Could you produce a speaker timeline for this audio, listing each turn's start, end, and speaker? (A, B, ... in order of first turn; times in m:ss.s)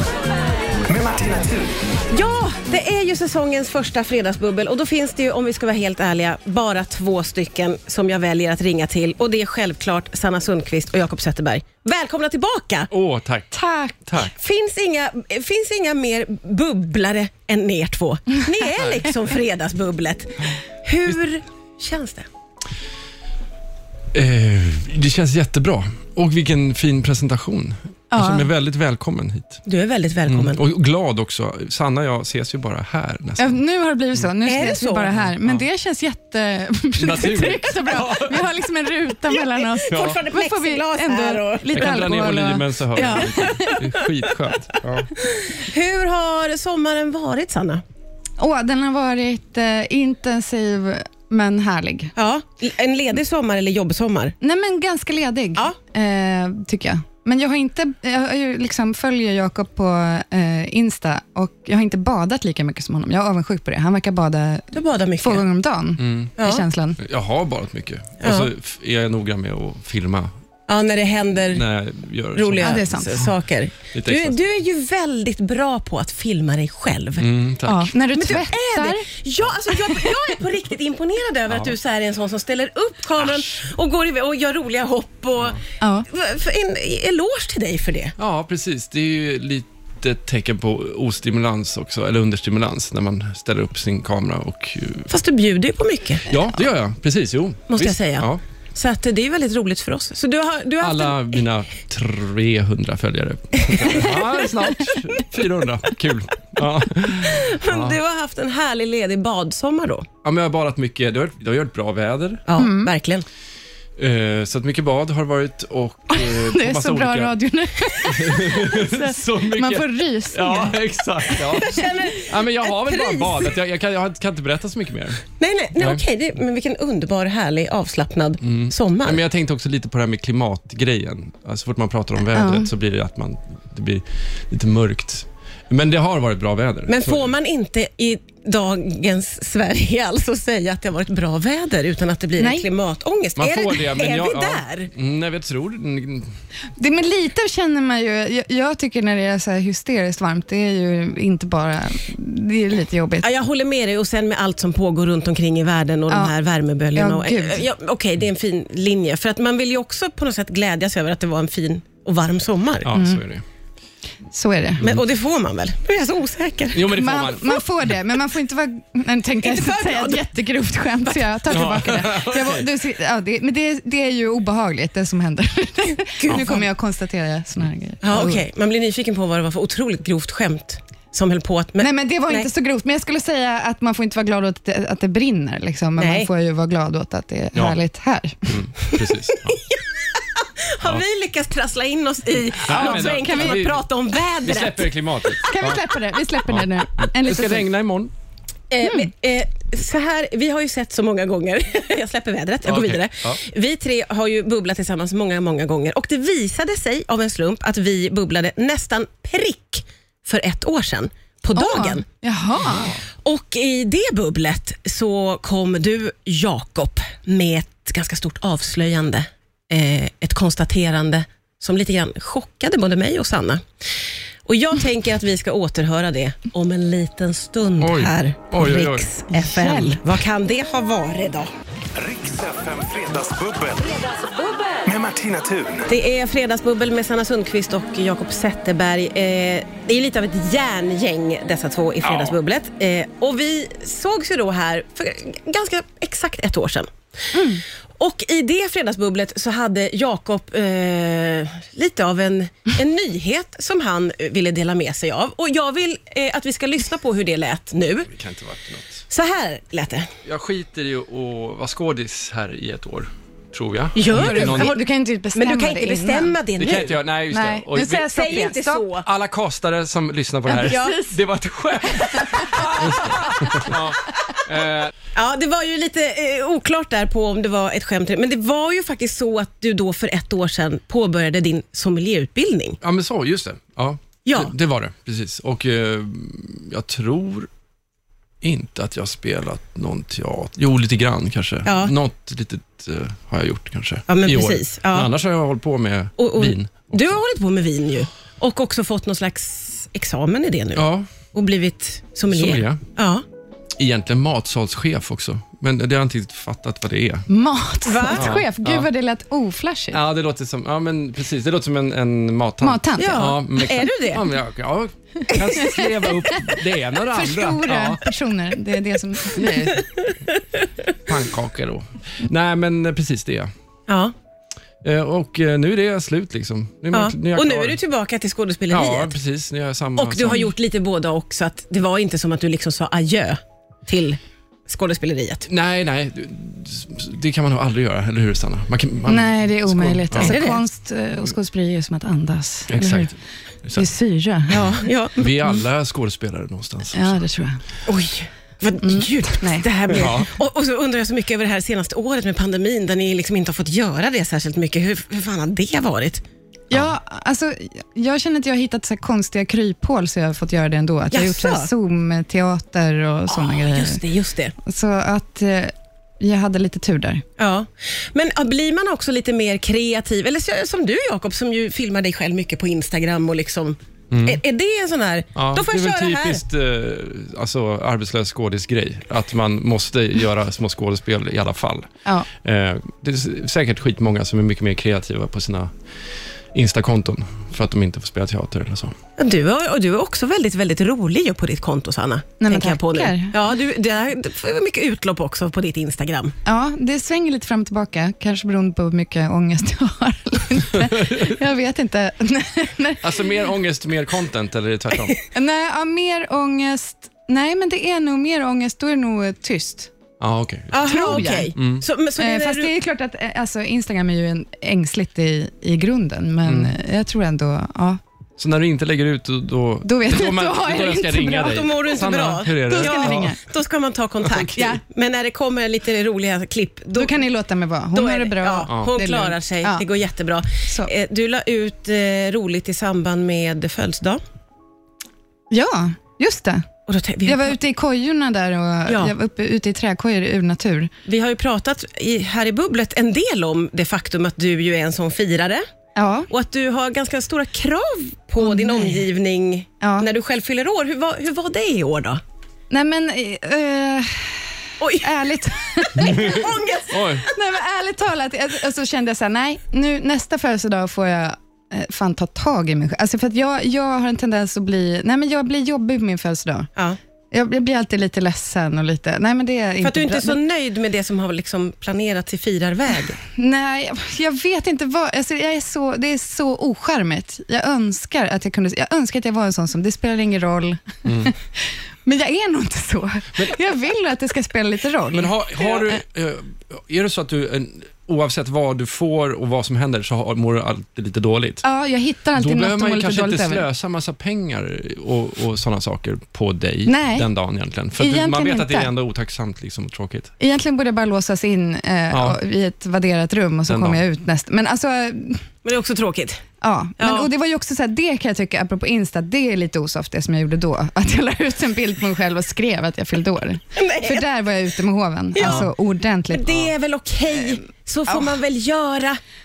0:00.9-0:01.8 A
0:02.1-0:12.9 B
0:12.9-0:13.5 C
0:13.5-0:14.0 D
0:14.1-0:14.4 C
0:14.3-0:22.3 B
0:24.1-0:29.6 C
0:28.1-0:28.5 D
0:29.7-0:30.6 B
0:30.3-0:33.6 C
0:33.4-0:44.1 D
0:34.4-0:35.2 B
0:35.2-0:35.6 C
0:37.0-0:38.5 C
0:39.3-0:42.0 B
0:39.9-0:40.2 C
0:41.7-0:45.1 C
0:45.2-0:47.8 B
0:48.4-0:52.1 D
0:52.2-0:54.4 B
0:54.4-1:07.0 D
1:04.7-1:05.4 B
1:06.0-1:06.3 C
1:06.4-1:06.6 B
1:07.0-1:10.3 C
1:08.2-1:08.5 B
1:10.7-1:11.7 B
1:11.5-1:13.3 C
1:12.4-1:17.3 B
1:12.6-1:13.2 D
1:13.9-1:14.4 C
1:17.2-1:17.9 C
1:17.7-1:19.1 D
1:18.1-1:28.2 B
1:19.7-1:20.0 D
1:25.8-1:26.1 D
1:28.2-1:35.1 C
1:35.1-1:36.4 B
1:36.3-1:38.4 C
1:37.7-1:41.4 B
1:40.8-1:48.0 C
1:43.6-1:44.5 B
1:47.2-1:50.1 B
1:50.2-1:52.4 C
1:52.5-1:53.3 B
1:52.6-1:52.9 D
1:54.0-1:57.3 C
1:56.1-2:01.8 D
1:57.9-2:06.0 C
2:01.5-2:03.6 B
2:05.4-2:09.2 B
2:08.4-2:17.3 C
2:12.3-2:12.7 D
2:16.9-2:24.9 B
2:22.4-2:22.7 D
2:23.4-2:26.3 C
2:26.8-2:33.3 D
2:33.2-2:42.9 B
2:36.1-2:36.3 D
2:36.9-2:37.7 D
2:42.8-2:43.4 C
2:42.9-2:43.2 D
2:44.3-2:44.8 D
2:44.8-2:46.9 B
2:46.7-2:47.6 C
2:46.9-2:58.4 D
2:49.4-2:50.3 B
2:51.5-2:52.7 C
2:56.2-2:56.7 B
2:58.0-3:02.5 B
3:01.8-3:08.6 D
3:06.0-3:06.3 B
3:08.5-3:09.6 C
3:08.9-3:15.5 B
3:12.7-3:13.8 C
3:12.7-3:13.7 D
3:14.4-3:15.8 C
3:15.4-3:17.7 D
3:16.5-3:18.1 C
3:18.7-3:32.0 B
3:18.8-3:19.1 D
3:22.6-3:23.4 C
3:31.6-3:33.0 D
3:32.6-3:33.0 C
3:33.2-3:51.5 B
3:47.8-3:49.1 C
3:49.3-3:50.0 D
3:52.0-3:54.2 A
3:54.8-3:55.9 A
3:55.9-4:06.9 B
4:02.0-4:02.4 C
4:07.3-4:07.6 D
4:08.0-4:18.1 B
4:18.0-4:19.1 C
4:19.1-4:20.1 B
4:20.2-4:24.8 C
4:24.0-4:27.0 B
4:24.1-4:26.4 D
4:26.6-4:28.1 C
4:27.3-4:28.9 D
4:27.9-4:29.1 B
4:29.0-4:34.9 C
4:30.5-4:31.2 D
4:30.6-4:31.0 B
4:31.8-4:33.7 D
4:35.2-4:42.8 B
4:42.8-4:47.5 C
4:44.2-4:44.5 B
4:48.4-4:57.2 C
4:51.7-4:51.9 B
4:54.1-4:55.1 B
4:56.2-5:03.2 B
5:00.8-5:01.1 C
5:02.3-5:02.8 C
5:03.8-5:07.3 C
5:07.3-5:10.0 D
5:07.8-5:08.3 B
5:08.1-5:08.9 C
5:09.9-5:18.0 C
5:12.6-5:13.4 D
5:13.0-5:14.3 B
5:15.3-5:19.8 D
5:19.3-5:19.8 C
5:21.0-5:23.5 C
5:23.9-5:24.1 B
5:24.8-5:27.8 C
5:26.9-5:29.2 B
5:28.7-5:30.5 C
5:30.0-5:35.5 B
5:35.5-5:40.4 C
5:39.1-5:43.1 D
5:40.2-5:40.6 B
5:42.7-5:43.9 C
5:43.7-5:44.7 D
5:44.5-5:45.6 B
5:45.2-5:47.2 C
5:46.9-5:47.6 D
5:47.9-5:56.2 B
5:48.8-5:50.2 D
5:49.9-5:50.3 C
5:56.7-6:04.0 D
6:01.1-6:01.7 B
6:03.3-6:04.5 B
6:04.6-6:07.2 D
6:07.4-6:16.4 B
6:14.1-6:14.4 C
6:15.4-6:25.8 C
6:26.5-6:29.0 C
6:29.2-6:36.4 B
6:32.4-6:33.4 D
6:36.5-6:43.3 D
6:40.8-6:41.4 C
6:43.0-6:45.2 C
6:45.3-6:49.9 D
6:50.2-6:51.8 C
6:50.7-6:52.7 B
6:50.8-6:51.6 D
6:52.2-6:58.0 D
6:56.4-6:56.7 C
6:58.4-7:03.3 C
6:59.8-7:01.8 D
7:01.3-7:07.2 B
7:02.6-7:03.4 D
7:04.2-7:04.5 C
7:04.6-7:04.8 D
7:07.0-7:09.8 D
7:07.9-7:14.2 B
7:08.7-7:08.9 C
7:15.5-7:16.7 D
7:16.9-7:17.6 B
7:17.2-7:20.9 D
7:18.9-7:19.1 B
7:21.1-7:25.6 B
7:26.0-7:26.3 D
7:26.3-7:32.2 B
7:28.4-7:29.0 D
7:29.8-7:30.1 D
7:32.7-7:36.5 D
7:34.8-7:35.1 B
7:36.0-7:37.0 B
7:36.0-7:37.2 C
7:37.2-7:46.7 D
7:47.3-7:50.4 D
7:49.8-7:53.2 B
7:53.4-8:06.0 D
8:01.0-8:01.3 C
8:05.1-8:11.6 C
8:11.6-8:13.6 D
8:12.4-8:20.3 C
8:16.9-8:17.3 D
8:18.0-8:18.9 D
8:20.4-8:25.5 D
8:22.1-8:22.4 C
8:23.7-8:24.0 C
8:25.6-8:26.4 B
8:26.6-8:36.7 D
8:27.0-8:27.3 B
8:33.8-8:34.3 B
8:35.4-8:35.7 B
8:35.4-8:35.7 C
8:36.3-8:39.2 B
8:38.1-8:38.4 D